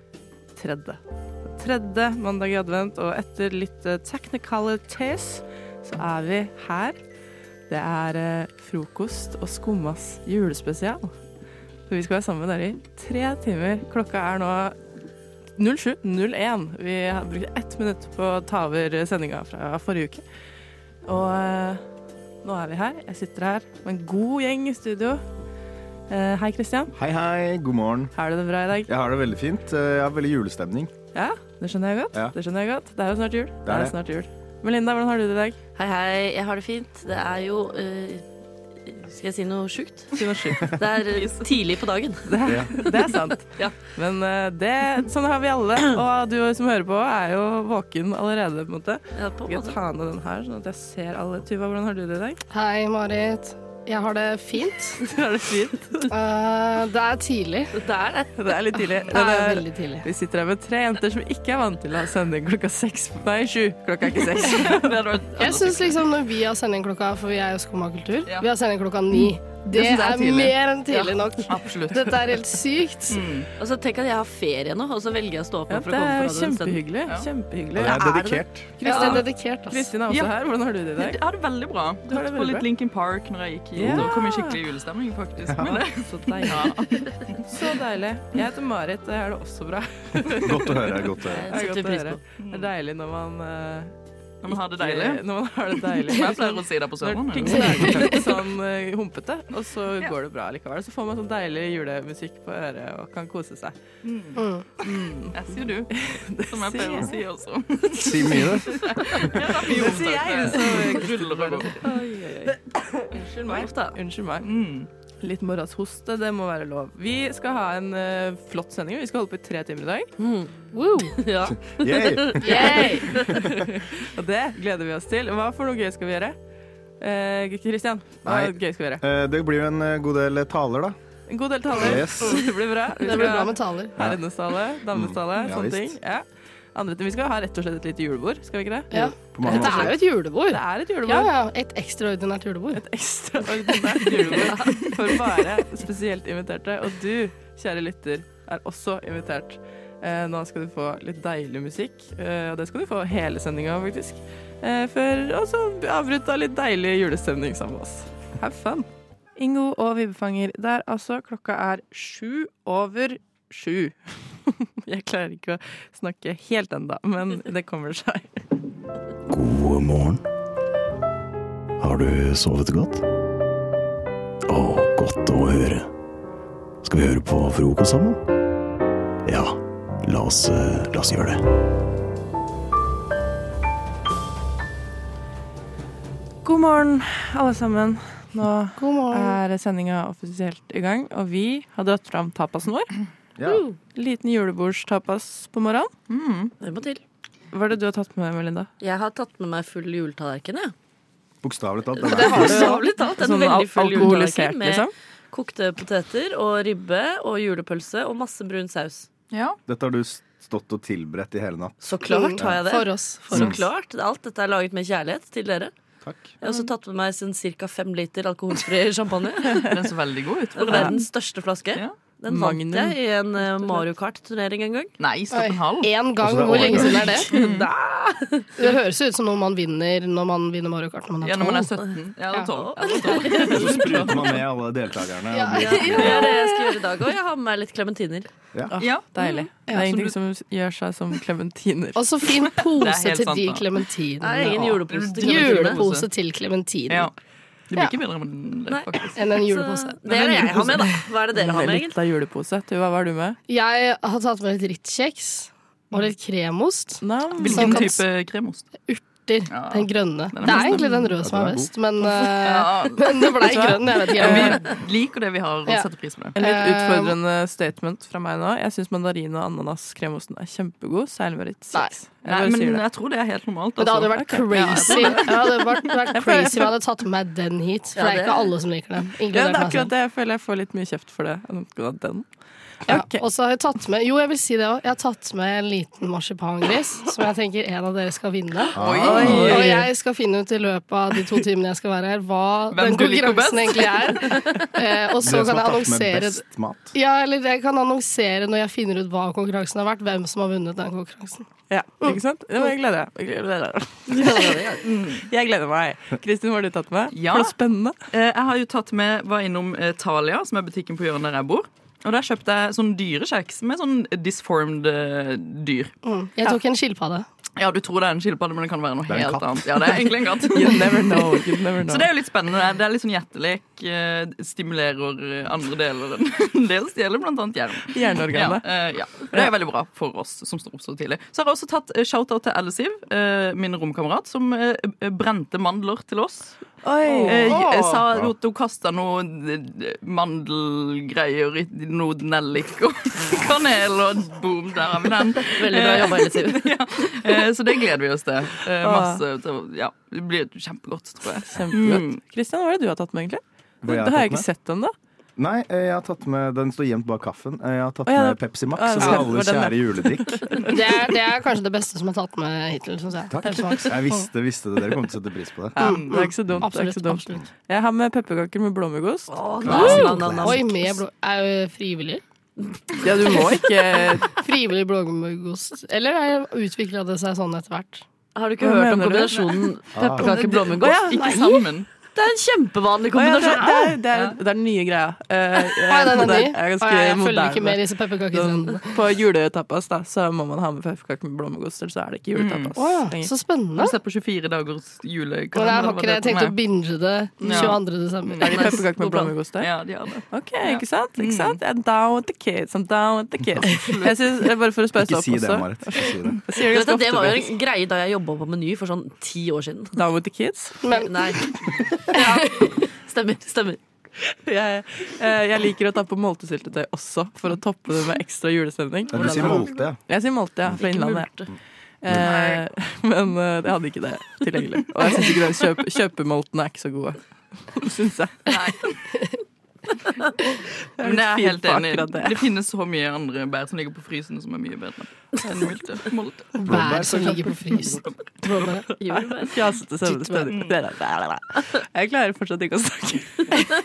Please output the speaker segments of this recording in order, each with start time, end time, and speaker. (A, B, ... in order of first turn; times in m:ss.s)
0:00.6-0:01.0 A
0:01.5-0:07.0 A
0:07.7-0:11.1 A
0:11.9-0:14.8 A
0:15.6-0:20.2 A
0:21.0-0:21.8 A
0:22.4-0:25.2 A
0:26.1-0:26.9 A
0:26.9-0:28.1 B
0:28.1-0:28.9 A
0:28.9-0:30.9 B
0:31.1-0:35.6 A
0:33.6-0:33.9 B
0:35.8-0:38.2 C
0:38.9-0:40.1 C
0:40.2-0:40.7 A
0:40.7-0:42.2 C
0:41.1-0:41.5 D
0:42.3-0:52.4 A
0:49.1-0:49.8 C
0:52.5-0:55.0 E
0:55.0-0:56.1 A
0:56.1-0:57.7 E
0:57.7-0:58.4 C
0:58.4-1:04.9 A
0:59.1-1:00.0 E
1:04.5-1:05.9 D
1:05.4-1:13.2 E
1:09.7-1:10.6 D
1:11.4-1:12.3 D
1:13.1-1:13.5 D
1:13.6-1:16.8 C
1:15.7-1:21.2 A
1:17.8-1:18.7 B
1:18.8-1:19.9 E
1:21.0-1:27.4 D
1:22.1-1:22.6 A
1:23.8-1:24.6 A
1:23.8-1:24.1 B
1:25.5-1:25.8 B
1:25.6-1:26.7 A
1:27.5-1:33.9 A
1:30.3-1:31.5 B
1:31.3-1:32.2 C
1:32.4-1:32.7 D
1:34.4-1:35.2 D
1:34.8-1:43.8 A
1:35.9-1:38.2 D
1:37.4-1:38.2 E
1:44.0-1:48.5 D
1:44.4-1:44.6 E
1:44.8-1:45.3 A
1:45.9-1:47.1 A
1:47.9-1:49.4 B
1:48.7-1:52.6 A
1:49.1-1:51.8 D
1:51.8-1:52.1 C
1:53.1-1:54.5 A
1:53.4-1:54.0 C
1:54.4-1:54.9 D
1:55.2-2:00.1 A
2:00.2-2:03.5 C
2:00.7-2:01.1 E
2:01.5-2:03.4 B
2:02.4-2:06.4 A
2:02.5-2:03.0 E
2:07.0-2:09.0 A
2:08.2-2:11.0 B
2:11.3-2:16.2 A
2:11.7-2:12.4 B
2:11.8-2:12.4 E
2:13.0-2:14.0 E
2:14.9-2:16.0 B
2:16.7-2:21.3 A
2:18.9-2:22.8 E
2:19.3-2:20.0 B
2:22.7-2:44.0 A
2:23.9-2:24.6 E
2:44.5-2:48.4 A
2:49.3-2:50.2 F
2:51.8-2:53.0 F
2:54.5-2:55.8 F
2:56.8-2:58.2 F
2:59.2-3:01.4 F
3:06.4-3:12.9 A
3:08.8-3:09.4 E
3:13.4-3:13.6 B
3:13.4-3:13.8 C
3:13.9-3:15.9 A
3:16.1-3:16.5 D
3:16.6-3:17.0 C
3:17.5-3:18.7 A
3:18.8-3:20.7 C
3:21.4-3:22.8 B
3:22.0-3:29.1 C
3:22.1-3:24.9 A
3:29.3-3:29.6 D
3:29.7-3:31.8 B
3:31.8-3:35.7 C
3:32.1-3:33.6 E
3:36.0-3:36.3 B
3:36.4-3:39.7 C
3:39.7-3:41.0 D
3:40.6-3:44.9 C
3:40.6-3:41.0 A
3:42.3-3:43.8 A
3:45.0-3:45.9 D
3:45.3-3:47.3 E
3:46.2-3:47.1 B
3:47.0-3:48.5 C
3:47.3-3:47.7 D
3:48.6-3:51.7 E
3:51.2-3:54.4 D
3:52.3-3:53.4 E
3:52.6-3:54.0 C
3:53.4-3:56.3 B
3:55.3-3:56.8 E
3:55.5-3:58.3 C
3:58.7-4:02.0 A
3:58.8-4:00.1 D
4:02.0-4:07.1 E
4:02.8-4:03.7 D
4:04.2-4:05.8 C
4:04.9-4:06.1 D
4:07.7-4:09.2 D
4:08.7-4:11.9 C
4:09.1-4:11.0 E
4:10.1-4:10.7 D
4:11.3-4:13.4 A
4:13.5-4:18.0 E
4:17.0-4:17.9 A
4:17.4-4:18.7 D
4:18.8-4:24.6 E
4:19.5-4:20.9 D
4:21.2-4:21.7 B
4:22.4-4:26.4 D
4:24.1-4:24.6 A
4:26.4-4:32.8 A
4:26.4-4:27.1 E
4:32.2-4:35.6 D
4:33.8-4:39.9 E
4:34.1-4:35.4 A
4:36.1-4:36.7 A
4:37.9-4:38.5 C
4:39.3-4:42.2 A
4:42.9-4:43.2 A
4:42.9-4:48.8 E
4:48.7-4:49.6 B
4:48.8-4:49.6 D
4:49.0-4:49.9 A
4:49.4-4:56.4 E
4:52.7-4:54.4 D
4:55.2-4:56.9 B
4:56.9-5:01.4 E
5:01.7-5:04.6 A
5:04.1-5:04.8 C
5:04.8-5:05.2 D
5:05.2-5:07.9 A
5:07.1-5:07.5 D
5:08.1-5:15.9 D
5:16.0-5:17.2 E
5:17.6-5:21.2 D
5:19.1-5:19.9 B
5:20.4-5:22.1 A
5:21.8-5:36.6 D
5:27.9-5:28.6 A
5:36.8-5:37.5 A
5:37.2-5:37.7 C
5:37.2-5:52.2 D
5:45.6-5:46.8 C
5:48.8-5:49.2 A
5:51.4-5:54.9 A
5:53.8-5:54.5 B
5:55.4-6:00.6 B
5:58.1-6:00.7 A
6:00.6-6:04.2 E
6:03.3-6:05.9 B
6:05.8-6:06.2 D
6:05.8-6:07.4 E
6:05.8-6:10.3 A
6:09.3-6:10.8 C
6:09.7-6:10.5 B
6:09.7-6:12.2 E
6:13.0-6:14.3 A
6:14.3-6:18.0 E
6:18.3-6:21.1 C
6:18.6-6:19.4 A
6:19.9-6:20.3 B
6:20.2-6:21.9 D
6:21.2-6:21.6 E
6:22.1-6:23.9 C
6:23.1-6:27.8 A
6:25.8-6:28.9 E
6:28.3-6:33.3 A
6:32.3-6:32.8 D
6:32.8-6:33.9 E
6:33.8-6:36.6 D
6:35.5-6:38.8 E
6:37.4-6:37.7 A
6:37.4-6:38.8 D
6:38.4-6:39.7 A
6:39.5-6:41.6 D
6:40.3-6:47.5 A
6:43.6-6:44.1 D
6:45.0-6:46.4 B
6:46.6-6:50.0 C
6:49.9-6:50.8 A
6:50.8-6:51.1 E
6:50.9-6:51.4 C
6:52.0-6:53.8 C
6:54.4-7:01.3 A
6:59.1-7:00.0 B
6:59.1-6:59.7 C
7:00.8-7:01.5 C
7:02.0-7:08.5 A
7:02.2-7:02.6 D
7:08.5-7:09.0 D
7:11.0-7:12.4 A
7:11.0-7:16.5 D
7:16.5-7:18.9 E
7:16.6-7:17.6 B
7:18.9-7:19.6 C
7:19.1-7:23.6 A